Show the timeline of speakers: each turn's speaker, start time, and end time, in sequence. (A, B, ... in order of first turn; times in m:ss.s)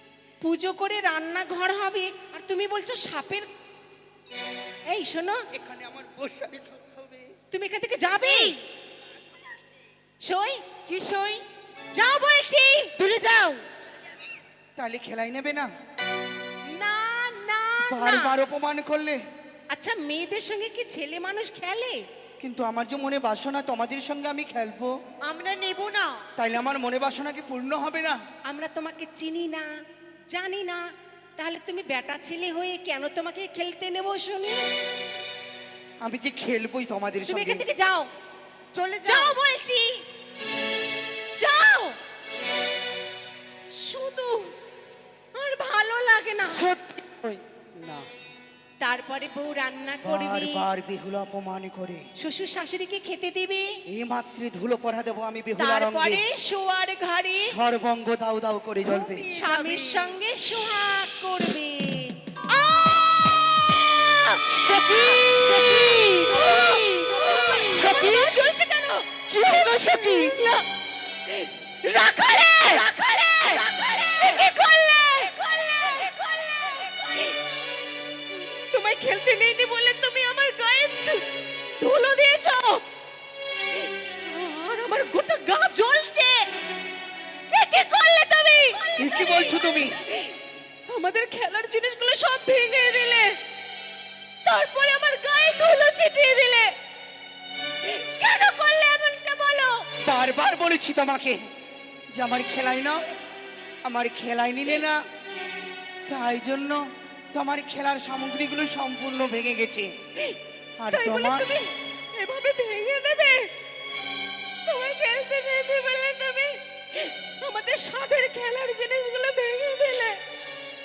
0:00.4-0:03.5 A
0:04.9-0:05.4 A
0:05.5-0:07.3 B
0:07.5-0:08.6 A
0:10.2-0:10.6 A
0:10.9-0:11.4 C
0:11.9-0:12.9 A
0:13.0-0:13.6 C
0:14.8-0:15.7 B
0:16.6-0:18.4 A
0:17.9-0:19.2 B
0:19.7-0:22.0 A
0:22.4-0:24.9 B
0:25.2-0:26.2 C
0:26.4-0:28.2 B
0:28.5-0:29.7 A
0:30.3-0:30.8 A
0:31.4-0:34.6 A
0:36.0-0:37.6 B
0:37.2-0:38.1 A
0:38.7-0:39.4 C
0:39.0-0:40.0 A
0:41.4-0:42.0 A
0:43.7-0:44.5 A
0:45.4-0:46.7 A
0:46.4-0:47.4 C
0:47.8-0:48.0 B
0:48.8-0:50.7 A
0:50.0-0:52.0 B
0:52.2-0:53.8 A
0:53.9-0:56.2 B
0:55.6-0:57.5 A
0:57.4-0:59.3 B
0:58.8-1:00.1 C
0:59.3-1:02.2 A
1:04.2-1:10.6 A
1:04.4-1:08.5 C
1:09.3-1:10.5 C
1:11.3-1:17.4 A
1:18.5-1:21.2 A
1:21.8-1:22.8 A
1:24.1-1:26.5 A
1:27.5-1:29.6 A
1:29.0-1:30.0 B
1:30.9-1:33.4 A
1:34.4-1:36.7 A
1:37.8-1:39.9 A
1:40.0-1:41.4 B
1:42.1-1:43.0 B
1:43.8-1:45.0 B
1:46.1-1:46.8 B
1:47.3-1:49.9 B
1:50.8-1:51.5 B
1:50.9-1:53.5 A
1:54.6-2:00.2 A